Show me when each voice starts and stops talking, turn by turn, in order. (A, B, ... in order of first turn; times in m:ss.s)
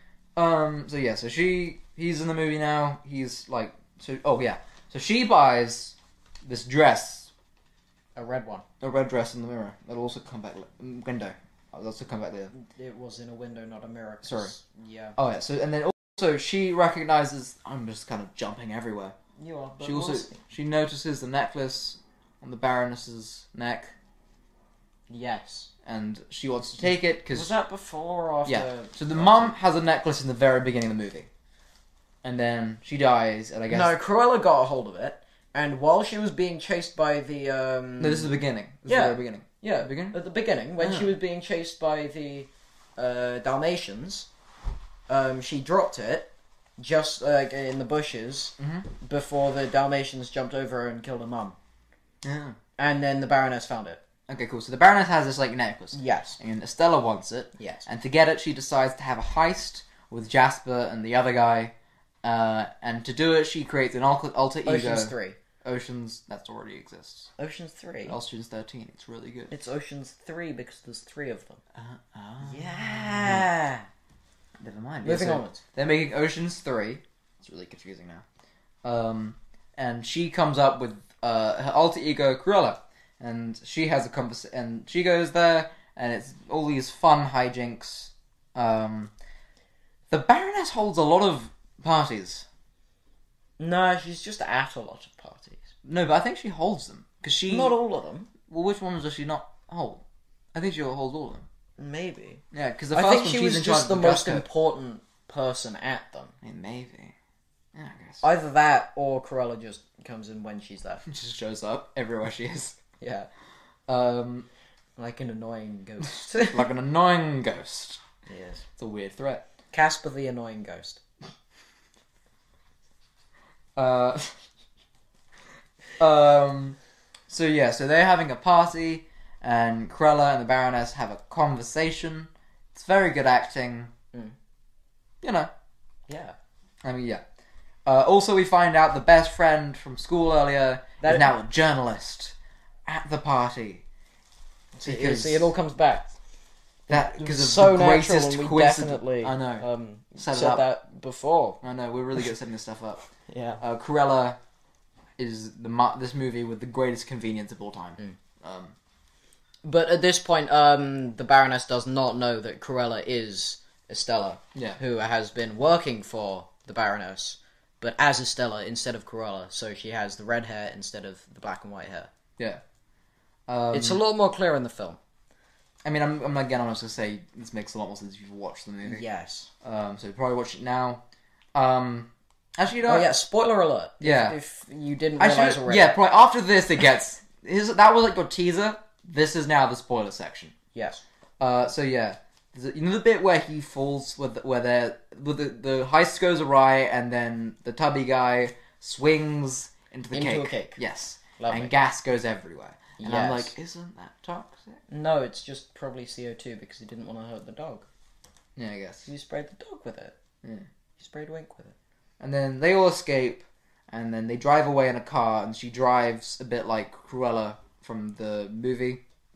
0:00.4-0:07.3 A
0:08.1-0:08.6 B
0:08.8-0:12.5 A
0:12.5-0:15.2 B
0:14.2-0:14.5 A
0:15.2-0:19.1 A
0:19.4-0:20.4 B
0:19.8-0:23.9 A
0:25.1-0:25.7 B
0:25.8-0:27.5 A
0:27.3-0:29.5 B
0:28.4-0:31.3 A
0:32.2-0:33.9 A
0:33.7-0:38.3 B
0:38.0-0:40.2 A
0:38.8-0:44.3 B
0:40.8-0:41.1 A
0:45.1-0:51.6 B
0:48.6-0:48.9 A
0:52.2-0:52.6 A
0:52.8-0:54.0 B
0:54.3-1:07.3 A
0:55.9-0:56.4 B
0:57.6-0:57.8 B
1:04.6-1:05.4 B
1:07.4-1:08.2 B
1:08.0-1:09.5 A
1:09.5-1:11.6 B
1:11.7-1:13.5 A
1:12.4-1:13.8 B
1:14.6-1:18.2 A
1:15.0-1:15.6 B
1:18.8-1:29.1 A
1:30.1-1:32.4 A
1:33.6-1:35.7 B
1:35.8-1:37.7 A
1:37.5-1:38.3 B
1:38.5-1:40.0 A
1:40.5-1:41.4 A
1:41.8-1:46.4 B
1:42.5-1:44.4 A
1:46.4-1:47.1 A
1:47.7-1:48.2 A
1:48.2-1:51.0 B
1:51.0-1:52.8 A
1:53.0-1:53.3 B
1:53.9-1:54.5 A
1:55.0-1:56.6 B
1:56.4-1:58.0 A
1:58.2-1:58.6 B
1:58.8-1:59.4 A
1:59.7-2:01.0 B
2:03.8-2:04.4 A
2:06.0-2:06.8 A
2:07.3-2:13.9 A
2:15.2-2:15.5 A
2:16.1-2:16.3 B
2:16.8-2:17.2 A
2:17.8-2:23.8 A
2:21.0-2:21.3 B
2:24.7-2:26.1 B
2:24.8-2:25.5 A
2:26.9-2:31.6 B
2:26.9-2:29.6 A
2:30.2-2:30.6 A
2:31.6-2:33.0 A
2:33.3-2:33.6 B
2:33.6-2:34.4 A
2:35.2-2:38.7 A
2:39.6-2:52.1 B
2:53.5-2:54.0 A
2:53.7-2:55.0 B
2:55.8-2:59.0 A
2:58.8-2:59.5 B
2:59.6-3:01.0 A
3:01.5-3:03.1 A
3:02.8-3:06.0 B
3:04.0-3:04.4 A
3:05.2-3:10.5 A
3:10.7-3:11.0 B
3:11.4-3:24.8 A
3:20.1-3:20.8 B
3:21.4-3:21.7 B
3:23.0-3:23.5 B
3:24.9-3:27.9 B
3:28.6-3:29.1 A
3:29.0-3:30.2 B
3:31.0-3:31.7 B
3:32.2-3:39.0 A